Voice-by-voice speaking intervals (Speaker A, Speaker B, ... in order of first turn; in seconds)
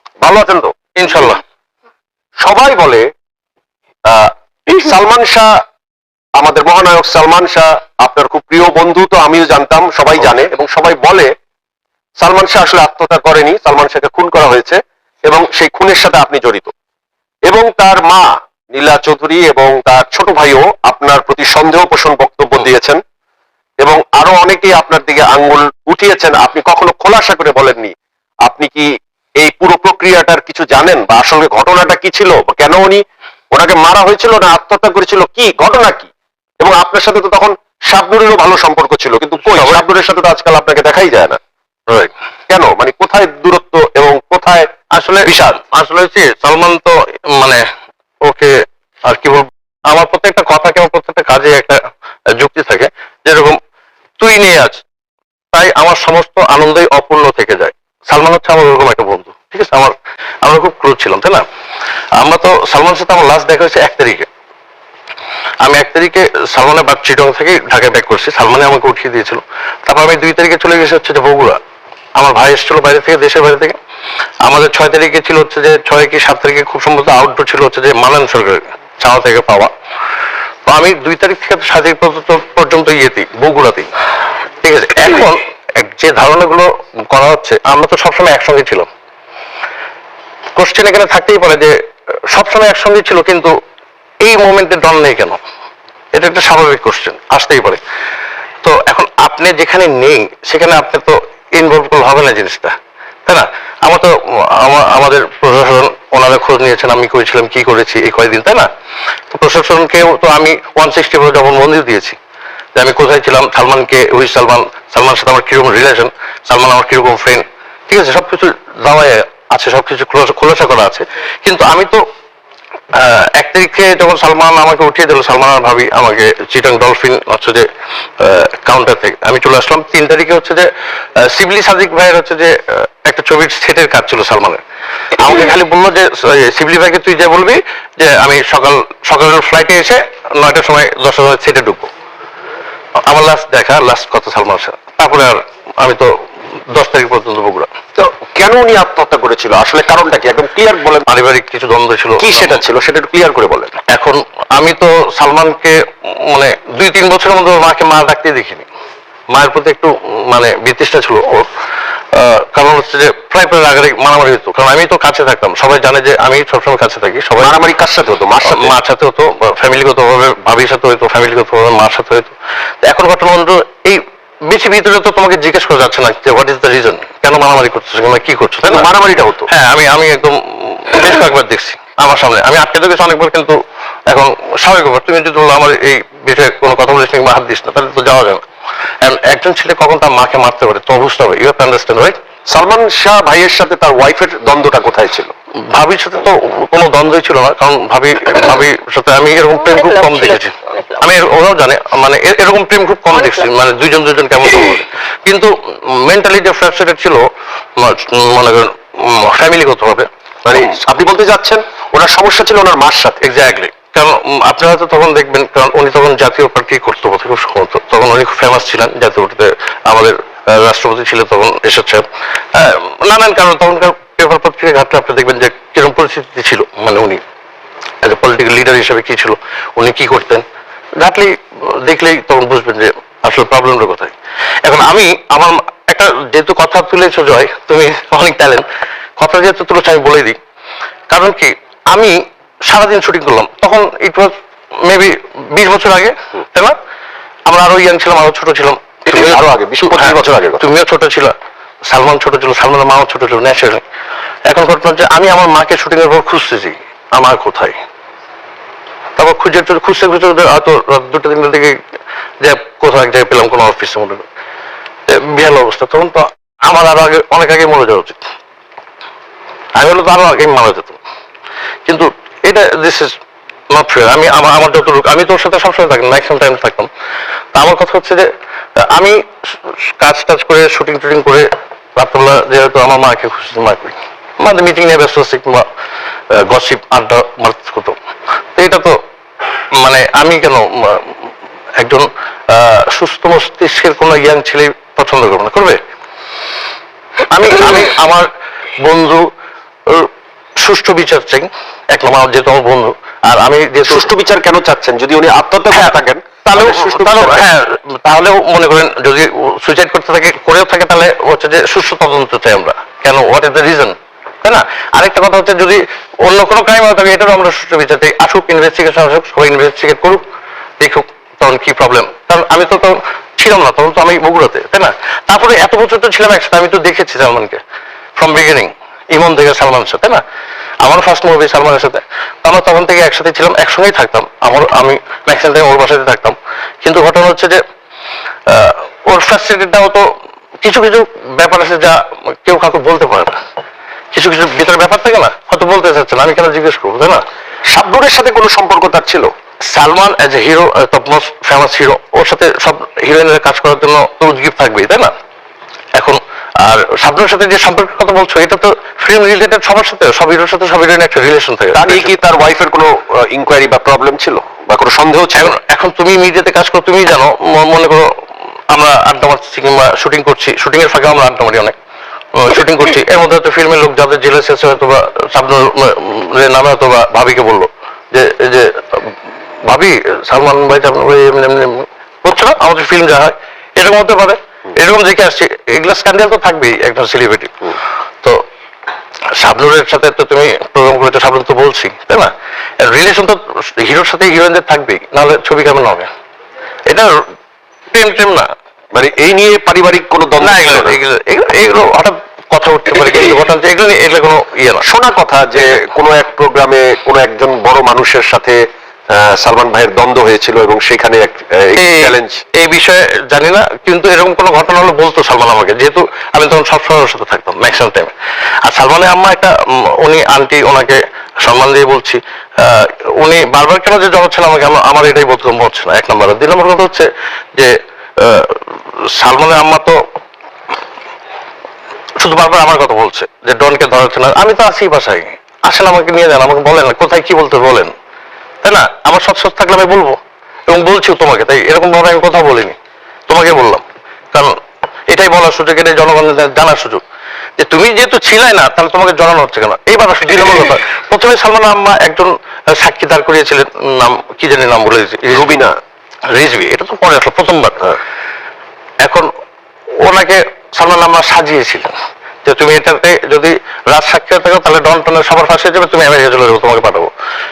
Speaker A: 0.2-0.7, 2.4-3.1, 4.0-5.5, 6.3-11.3, 12.2-16.7, 17.5-23.0, 23.8-27.9, 28.4-28.9, 29.4-41.4, 42.5-44.7, 45.2-45.6, 148.0-151.1, 152.2-153.7, 167.4-168.7, 178.7-179.5, 192.5-195.3, 210.4-213.2, 249.1-250.6, 303.8-307.4, 347.7-349.3, 361.7-365.5, 398.9-401.0, 404.8-408.6, 409.1-412.4, 455.3-455.7
Speaker B: 0.9-1.4, 39.5-39.8, 44.9-47.6, 48.2-51.8, 52.4-53.6, 54.2-54.8, 55.5-61.4, 62.2-64.3, 65.6-71.6, 72.2-73.8, 74.4-79.7, 80.7-83.9, 84.6-88.9, 90.5-91.7, 92.3-93.5, 94.2-95.4, 96.1-97.8, 98.6-102.7, 103.2-108.7, 109.3-112.2, 112.7-122.0, 122.9-127.7, 128.2-134.6, 135.2-141.9, 143.1-146.1, 146.7-147.7, 151.1-152.6, 153.9-158.7, 159.3-161.5, 162.1-167.6, 168.5-178.9, 179.5-188.4, 189.0-192.2, 195.7-207.2, 207.8-210.1, 213.2-227.2, 228.0-230.4, 231.0-234.1, 234.6-238.6, 239.2-240.3, 241.1-244.3, 244.8-246.7, 247.5-251.3, 251.8-253.8, 254.5-257.8, 259.2-261.7, 262.4-264.2, 265.1-268.2, 269.8-271.0, 271.9-273.1, 273.7-276.9, 277.5-279.2, 279.7-285.6, 286.3-288.0, 288.6-289.0, 289.8-291.2, 291.8-295.8, 297.2-298.3, 298.8-299.3, 299.9-304.1, 305.7-320.2, 320.8-327.6, 328.1-330.2, 330.8-337.6, 338.5-340.1, 340.6-343.4, 344.1-347.2, 349.7-355.1, 355.9-362.1, 365.3-368.1, 368.7-371.7, 372.3-379.1, 379.6-387.7, 389.3-396.1, 396.9-397.2, 397.9-398.5, 400.4-404.8, 411.8-418.1, 418.6-428.6, 429.1-430.0, 432.2-437.9, 438.6-442.8, 443.3-444.5, 445.1-447.0, 447.6-455.6, 456.3-457.9, 459.0-459.3, 460.0-461.9, 462.4-467.1